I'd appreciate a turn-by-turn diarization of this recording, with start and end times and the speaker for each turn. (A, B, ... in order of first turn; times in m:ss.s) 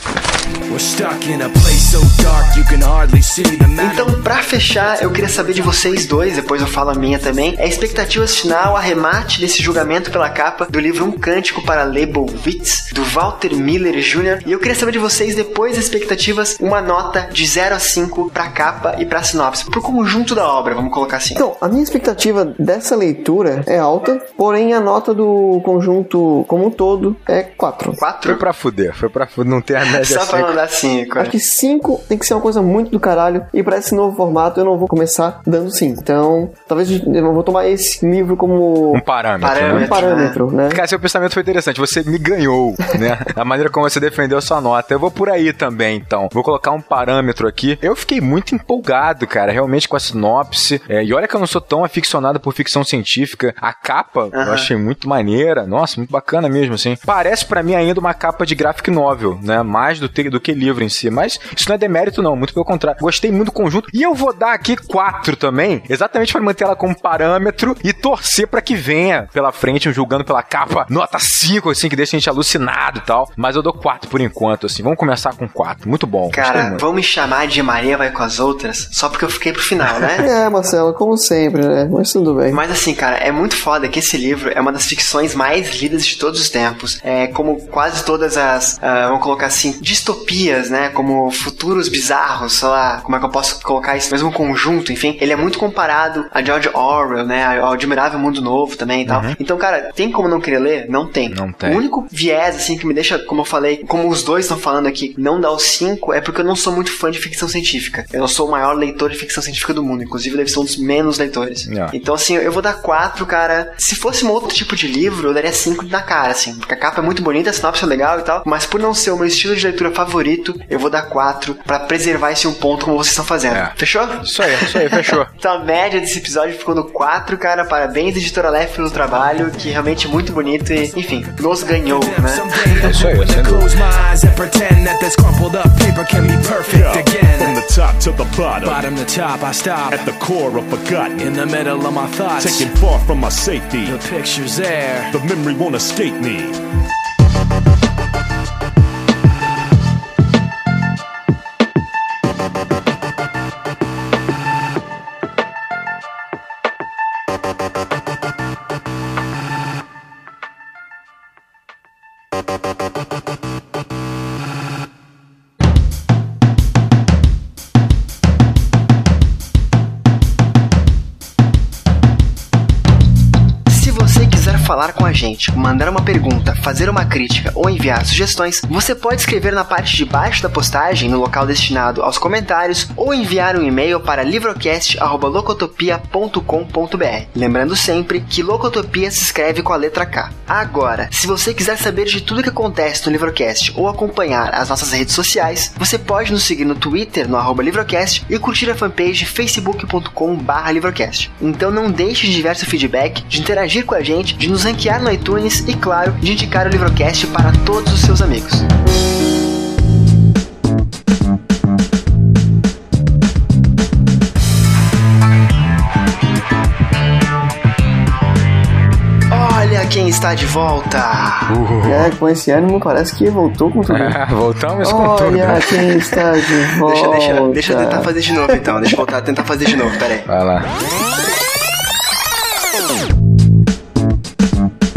0:00.7-0:04.2 A
0:03.8-0:21.4 B
0:21.3-0:28.0 C
0:28.0-0:28.4 B
0:28.2-0:30.5 D
0:29.8-0:31.3 B
0:31.2-0:39.0 C
0:38.9-0:40.0 D
0:39.4-0:40.4 B
0:39.6-0:40.8 C
0:40.7-1:16.8 D
0:54.3-0:54.7 B
1:16.3-1:20.2 B
1:20.1-1:22.6 C
1:22.5-2:12.9 B
1:39.0-1:39.4 D
1:41.3-1:41.8 D
1:51.6-1:51.9 D
2:03.5-2:05.3 D
2:11.6-2:17.6 A
2:12.8-2:13.7 D
2:16.6-2:18.8 E
2:18.6-2:20.1 A
2:19.8-2:21.4 E
2:21.2-2:22.7 A
2:22.4-2:24.0 E
2:23.8-2:25.2 A
2:25.1-2:26.6 E
2:53.7-3:28.6 B
3:39.3-3:41.5 B
3:41.5-3:42.1 D
3:41.8-3:44.2 C
3:43.9-3:46.1 D
3:44.8-3:48.1 C
3:46.8-3:50.3 B
3:50.2-3:50.7 D